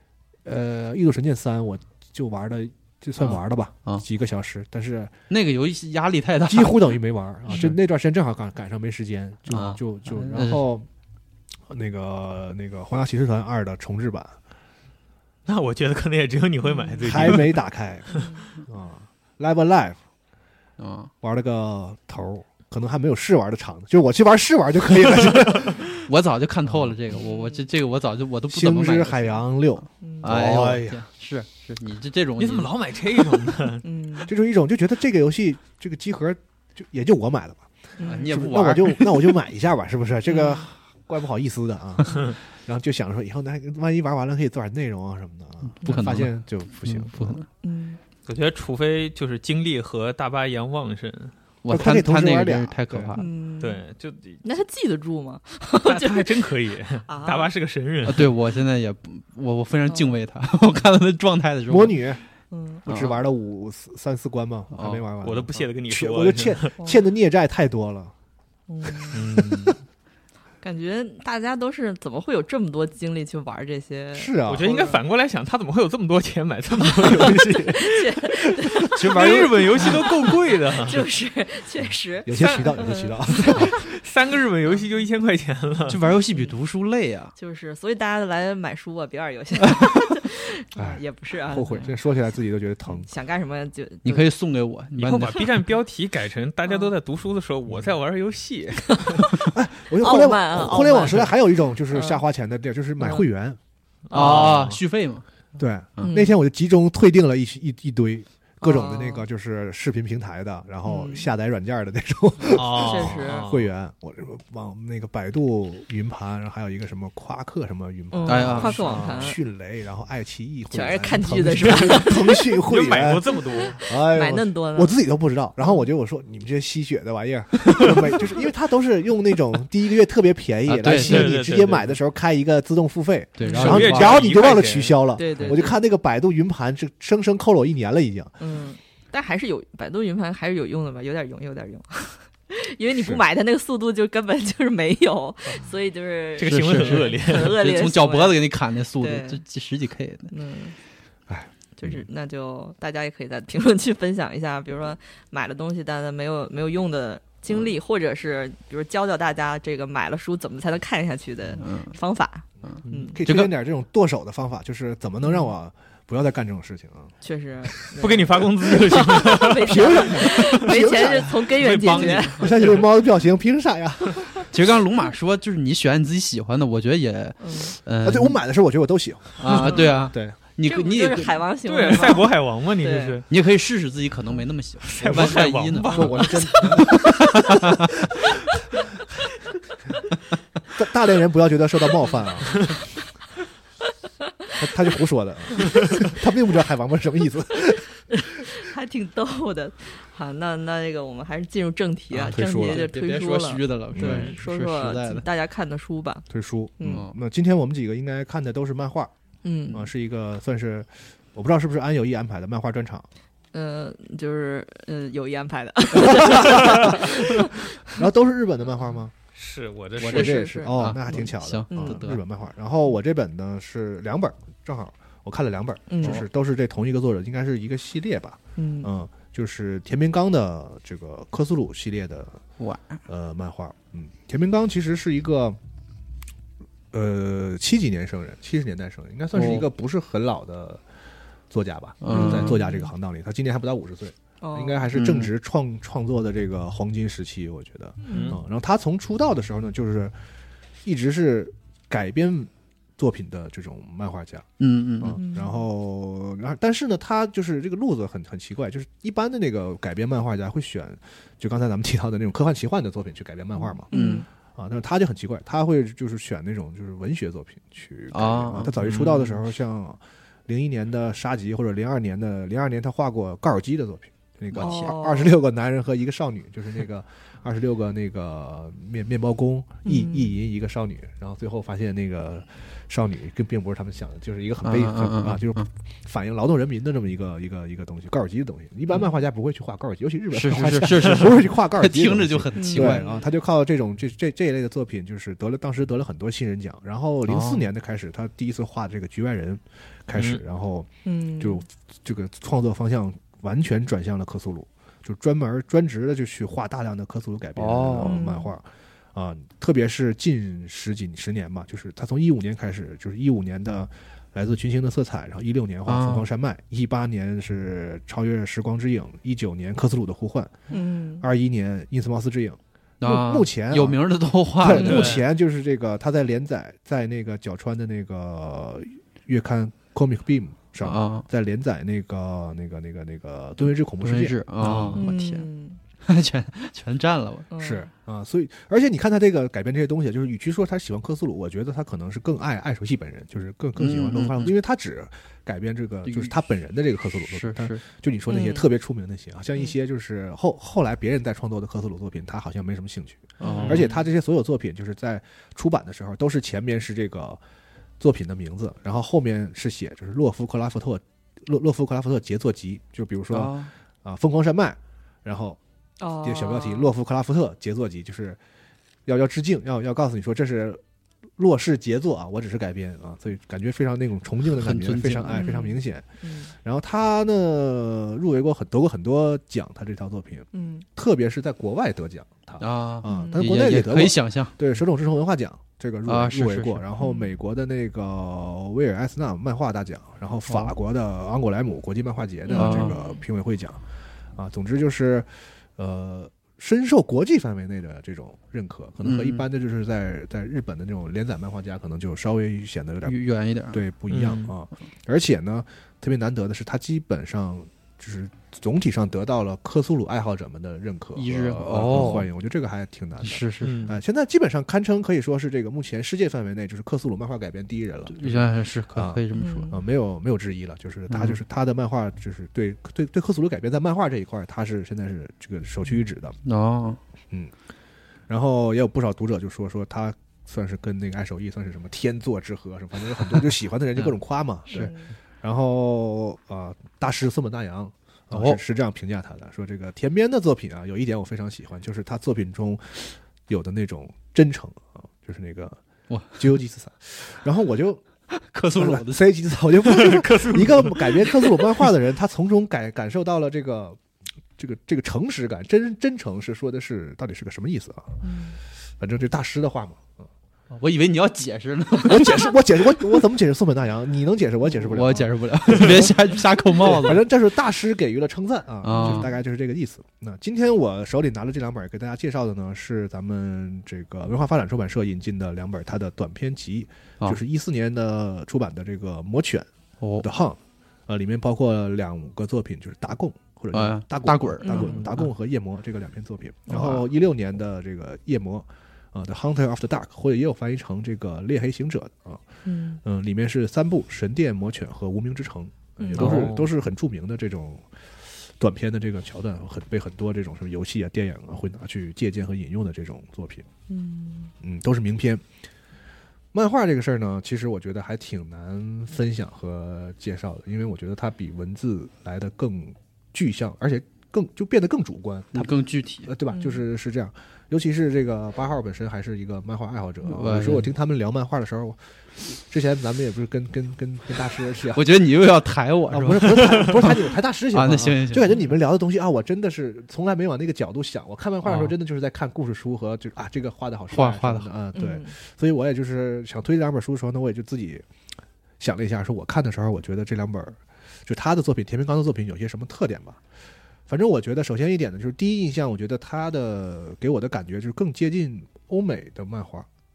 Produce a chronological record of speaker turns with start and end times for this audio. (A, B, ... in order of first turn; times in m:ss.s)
0:00.4-0:05.1 A
0:03.2-0:04.0 B
0:05.3-0:06.9 B
0:06.4-0:10.9 A
0:09.5-0:10.6 B
0:11.7-0:14.4 A
0:15.5-0:17.6 C
0:16.7-0:17.1 D
0:17.0-0:20.0 A
0:18.1-0:18.6 D
0:20.8-0:21.1 B
0:21.2-0:25.9 A
0:25.2-0:25.8 C
0:26.1-0:29.4 B
0:26.7-0:27.0 A
0:27.2-0:27.7 D
0:28.5-0:31.0 A
0:30.0-0:30.3 D
0:30.2-0:32.7 B
0:32.4-0:33.8 C
0:33.8-0:34.3 D
0:34.3-0:47.4 A
0:38.0-0:38.3 D
0:38.0-0:39.3 B
0:40.3-0:40.6 D
0:45.7-0:47.5 B
0:47.6-0:48.0 D
0:48.3-0:51.3 C
0:51.6-0:53.3 B
0:51.7-0:53.2 A
0:53.2-0:53.8 D
0:53.6-0:54.4 C
0:54.4-0:57.5 D
0:55.8-0:58.4 C
0:58.0-1:02.0 B
0:59.9-1:00.2 D
1:01.7-1:02.2 A
1:02.5-1:02.8 D
1:02.8-1:08.1 A
1:02.9-1:03.2 B
1:04.7-1:05.0 B
1:05.2-1:06.7 C
1:08.7-1:09.2 D
1:09.1-1:09.8 C
1:09.3-1:09.7 A
1:10.6-1:15.0 D
1:14.2-1:14.7 A
1:14.5-1:21.0 C
1:16.8-1:20.3 D
1:19.0-1:19.9 A
1:20.8-1:23.8 D
1:22.2-1:23.7 A
1:23.5-1:26.0 C
1:25.9-1:27.3 B
1:27.4-1:31.9 D
1:30.8-1:33.1 A
1:32.9-1:34.3 D
1:34.0-1:35.6 B
1:35.0-1:39.3 C
1:38.9-1:39.3 D
1:39.5-1:43.6 A
1:40.0-1:41.4 D
1:41.9-1:42.2 D
1:43.0-1:43.2 D
1:44.1-1:44.8 C
1:44.1-1:45.2 B
1:44.2-1:44.6 A
1:45.6-2:18.4 A
1:46.0-1:46.3 D
1:48.6-1:49.2 D
1:50.8-1:51.3 D
1:52.5-1:53.7 C
1:52.5-1:53.5 D
1:58.1-1:59.4 D
1:58.3-1:58.9 B
2:00.7-2:02.5 D
2:01.6-2:03.8 C
2:03.4-2:05.0 D
2:10.7-2:11.4 B
2:10.8-2:12.0 C
2:13.4-2:14.2 B
2:13.4-2:13.8 D
2:13.5-2:15.0 C
2:15.2-2:15.8 D
2:18.4-2:29.4 D
2:26.4-2:27.6 C
2:26.4-2:30.3 B
2:30.3-2:30.8 D
2:31.3-2:32.0 A
2:31.8-2:43.2 D
2:41.6-2:42.0 B
2:42.7-2:43.5 B
2:42.8-2:47.1 A
2:47.2-2:52.6 D
2:48.0-2:50.2 C
2:48.9-2:54.4 A
2:51.5-2:52.9 C
2:51.8-2:52.4 B
2:54.5-2:58.4 B
2:57.4-2:57.8 D
2:58.0-3:00.4 A
2:59.4-3:01.4 B
2:59.5-3:00.0 D
3:00.6-3:03.2 D
3:01.6-3:03.2 C
3:03.3-3:07.9 B
3:04.8-3:06.8 C
3:05.0-3:08.3 A
3:10.8-3:12.7 A
3:14.6-3:18.1 A
3:18.1-3:26.3 D
3:22.1-3:22.9 A
3:22.6-3:25.3 B
3:23.9-3:24.3 A
3:26.3-3:29.1 A
3:26.8-3:27.0 D
3:29.4-3:29.9 D
3:29.7-3:33.1 A
3:33.5-3:38.0 D
3:36.0-3:37.1 A
3:37.8-3:39.1 A
3:39.4-3:40.4 C
3:40.0-3:42.2 B
3:40.0-3:52.4 A
3:40.1-3:42.0 D
3:45.9-3:46.2 D
3:48.6-3:48.9 D
3:52.6-3:53.0 B
3:53.1-3:55.6 A
3:56.9-4:00.8 A
3:59.3-3:59.7 B
4:01.5-4:10.2 A
4:02.0-4:02.8 B
4:02.1-4:02.8 D
4:04.4-4:04.8 D
4:04.9-4:05.3 B
4:08.0-4:08.4 D
4:08.1-4:08.4 C
4:10.8-4:23.9 A
4:14.6-4:15.2 B
4:15.1-4:15.6 D
4:23.6-4:24.3 D
4:23.9-4:24.3 B
4:24.6-5:20.5 A
4:28.1-4:29.0 B
4:28.8-4:29.2 C
4:34.6-4:35.4 D
4:39.8-4:40.4 D
4:44.6-4:45.7 B
4:50.3-4:53.0 B
4:52.6-4:53.2 D
4:57.3-4:57.6 B
5:00.2-5:00.4 C
5:01.0-5:01.6 D
5:07.6-5:08.2 B
5:08.0-5:08.5 D
5:15.9-5:16.2 B
5:20.7-5:21.2 D
5:21.2-5:24.0 A
5:23.0-5:25.2 B
5:24.5-5:35.0 A
5:24.8-5:25.2 C
5:30.8-5:31.3 B
5:34.0-5:35.5 B
5:35.0-5:35.8 D
5:36.0-5:37.5 B
5:37.5-5:37.9 D
5:37.6-5:57.4 A
5:43.8-5:44.6 B
5:46.1-5:46.3 B
5:47.3-5:47.8 B
5:48.3-5:48.7 D
5:53.4-5:53.9 B
5:53.4-5:53.8 D
5:53.6-5:54.0 C
5:58.0-6:05.6 A
6:03.3-6:03.7 B
6:06.0-6:06.9 D
6:06.2-6:08.4 A
6:09.1-6:10.8 A
6:11.4-6:33.8 A
6:14.5-6:15.6 B
6:15.3-6:16.5 D
6:20.5-6:20.8 D
6:22.6-6:24.6 B
6:23.0-6:23.4 D
6:26.1-6:26.8 B
6:27.0-6:27.3 D
6:30.5-6:30.7 B
6:32.5-6:33.2 D
6:32.5-6:33.0 B
6:34.4-6:43.2 A
6:39.0-6:39.4 B
6:43.1-6:43.8 B
6:43.7-7:06.4 A
6:44.1-6:44.5 C
6:51.2-6:52.3 B
6:53.2-6:53.8 B
6:53.6-6:54.0 C
6:58.1-6:59.7 B
6:59.4-6:59.8 D
7:01.1-7:01.4 B
7:06.4-7:07.0 B
7:08.3-7:25.8 A
7:14.7-7:15.1 D
7:18.3-7:18.6 B
7:26.1-7:26.5 B
7:26.4-7:28.0 A
7:28.4-7:29.2 B
7:28.8-7:34.0 A
7:30.0-7:31.2 C
7:34.6-7:38.2 A
7:38.2-7:38.6 D
7:39.0-7:40.3 A
7:40.7-7:42.5 B
7:42.0-8:12.4 A
7:44.8-7:47.2 B
7:48.8-7:49.3 B
7:49.0-7:49.3 D
8:00.0-8:00.3 B
8:03.7-8:05.3 B
8:04.6-8:05.0 D
8:06.7-8:07.1 B
8:12.6-8:13.0 D
8:13.0-8:17.9 A
8:16.0-8:16.3 D
8:16.2-8:16.7 C
8:18.4-8:23.7 A
8:23.9-8:24.5 D
8:24.6-8:25.4 A
8:26.5-8:45.1 A
8:35.5-8:36.3 B
8:36.5-8:36.8 D
8:40.2-8:40.9 B
8:44.9-8:48.6 B
8:46.1-8:58.0 A
8:51.6-8:51.9 B
8:54.1-8:54.7 B
8:54.9-8:55.3 D
8:58.8-9:03.4 A
9:04.1-9:09.9 A